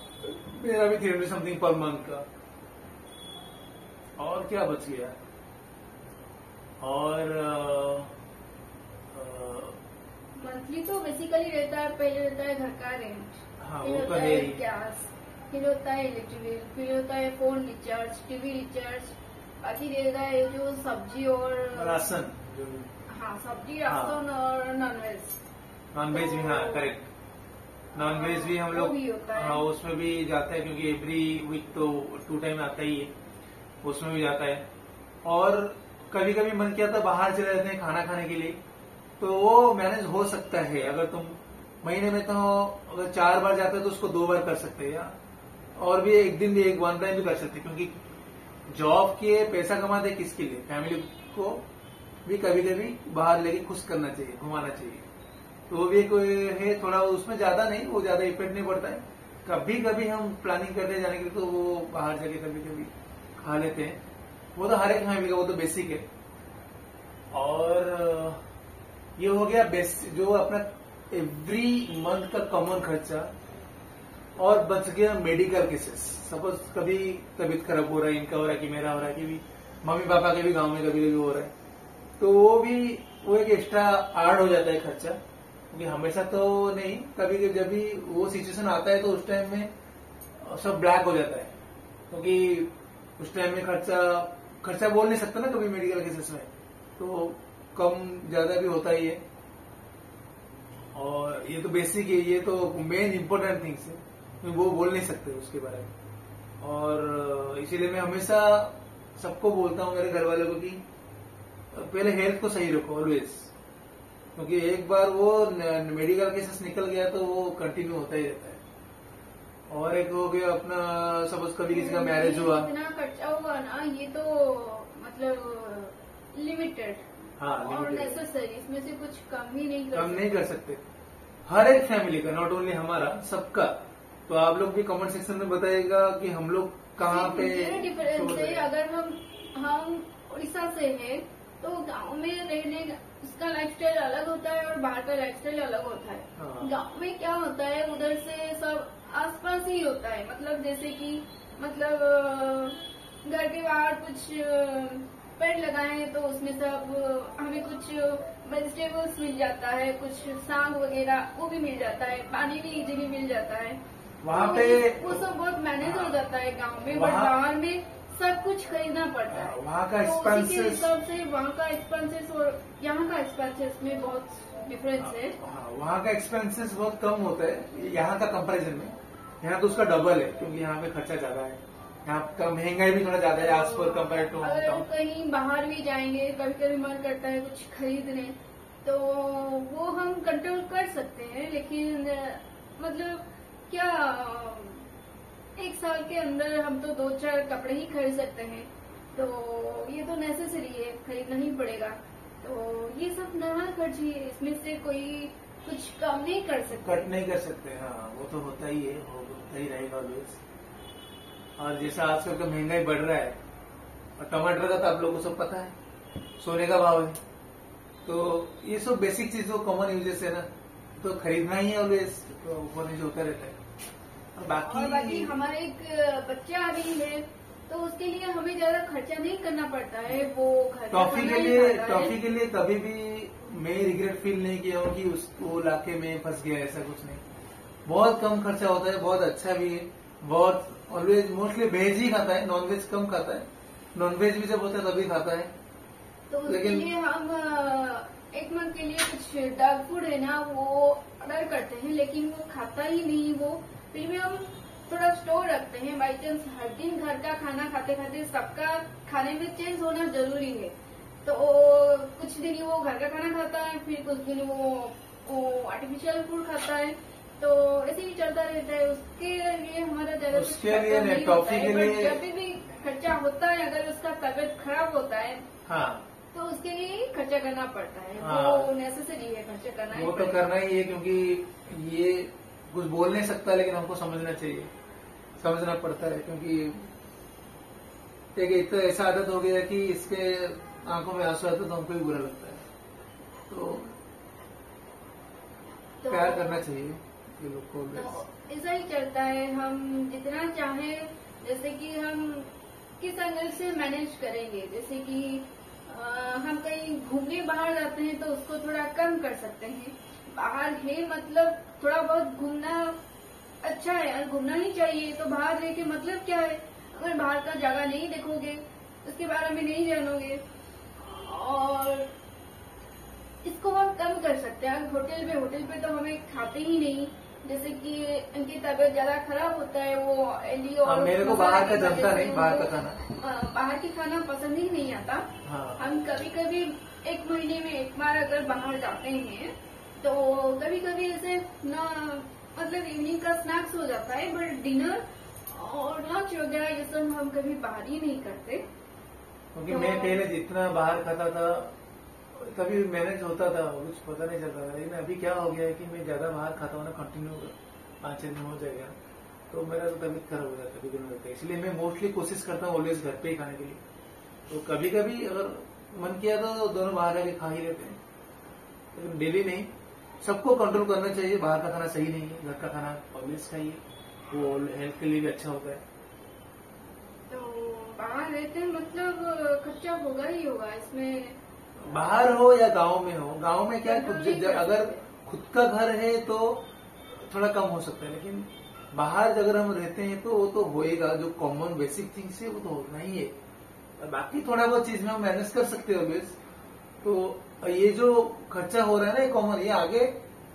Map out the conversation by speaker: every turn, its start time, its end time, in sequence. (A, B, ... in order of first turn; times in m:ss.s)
0:00.2-0:02.2 A
0:04.2-0:05.2 A
0:06.8-0:08.1 A
0:09.1-0:09.8 A
0:10.4-0:22.0 B
0:13.6-0:14.6 A
0:21.7-0:22.9 A
0:23.1-0:25.4 B
0:23.9-0:24.2 A
0:25.9-0:27.1 A
0:26.1-0:26.9 B
0:27.9-0:33.1 A
0:28.0-0:29.6 B
0:33.8-0:34.7 A
0:35.2-0:38.6 A
0:39.2-0:45.1 A
0:45.8-0:47.9 A
0:48.7-0:51.6 A
0:52.2-0:55.1 A
0:55.7-1:04.0 A
1:04.6-1:06.0 A
1:07.3-1:08.4 A
1:09.2-1:13.3 A
1:14.4-1:21.5 A
1:22.2-1:25.2 A
1:25.7-1:29.7 A
1:30.4-1:31.5 A
1:32.1-1:39.2 A
1:40.9-1:45.9 A
1:46.6-1:50.8 A
1:51.7-1:53.5 A
1:54.4-1:58.6 A
1:59.7-2:02.7 A
2:01.7-2:10.4 B
2:07.4-2:08.2 A
2:09.9-2:10.8 A
2:11.5-2:18.7 A
2:17.0-2:43.8 B
2:26.4-2:26.7 A
2:44.2-2:46.2 A
2:44.3-2:55.4 B
2:46.9-2:47.4 A
2:49.3-2:50.9 A
2:55.0-3:04.9 A
3:03.4-3:14.8 B
3:15.6-3:27.1 B
3:26.8-3:30.4 A
3:31.6-3:33.4 A
3:34.2-3:35.7 A
3:36.4-3:37.2 A
3:38.0-3:40.5 A
3:41.0-3:43.6 A
3:44.4-3:45.4 A
3:44.6-3:52.1 B
3:50.9-3:57.2 A
3:57.9-4:05.5 A
4:06.3-4:20.7 B
4:06.5-4:06.9 A
4:21.2-4:35.5 B
4:30.3-4:32.2 A
4:35.7-4:36.1 A
4:36.3-4:40.4 B
4:38.2-4:38.7 A
4:39.9-4:44.7 A
4:45.4-4:46.8 A
4:48.4-4:52.6 A
4:53.5-4:53.9 A
4:56.0-4:56.6 B
4:56.1-4:58.2 A
4:58.0-5:13.0 B
5:13.6-5:20.4 B
5:21.0-5:22.1 B
5:23.4-5:48.6 B
5:30.8-5:33.0 A
5:35.4-5:35.8 A
5:49.5-5:51.7 A
5:49.7-5:50.2 B
5:52.3-5:59.0 A
5:59.5-6:03.8 A
6:04.5-6:08.0 A
6:08.9-6:09.7 A
6:10.2-6:15.8 A
6:17.3-6:21.4 B
6:21.8-6:26.6 A
6:23.8-6:25.0 B
6:27.2-6:33.4 A
6:34.0-6:36.4 A
6:37.0-6:40.1 A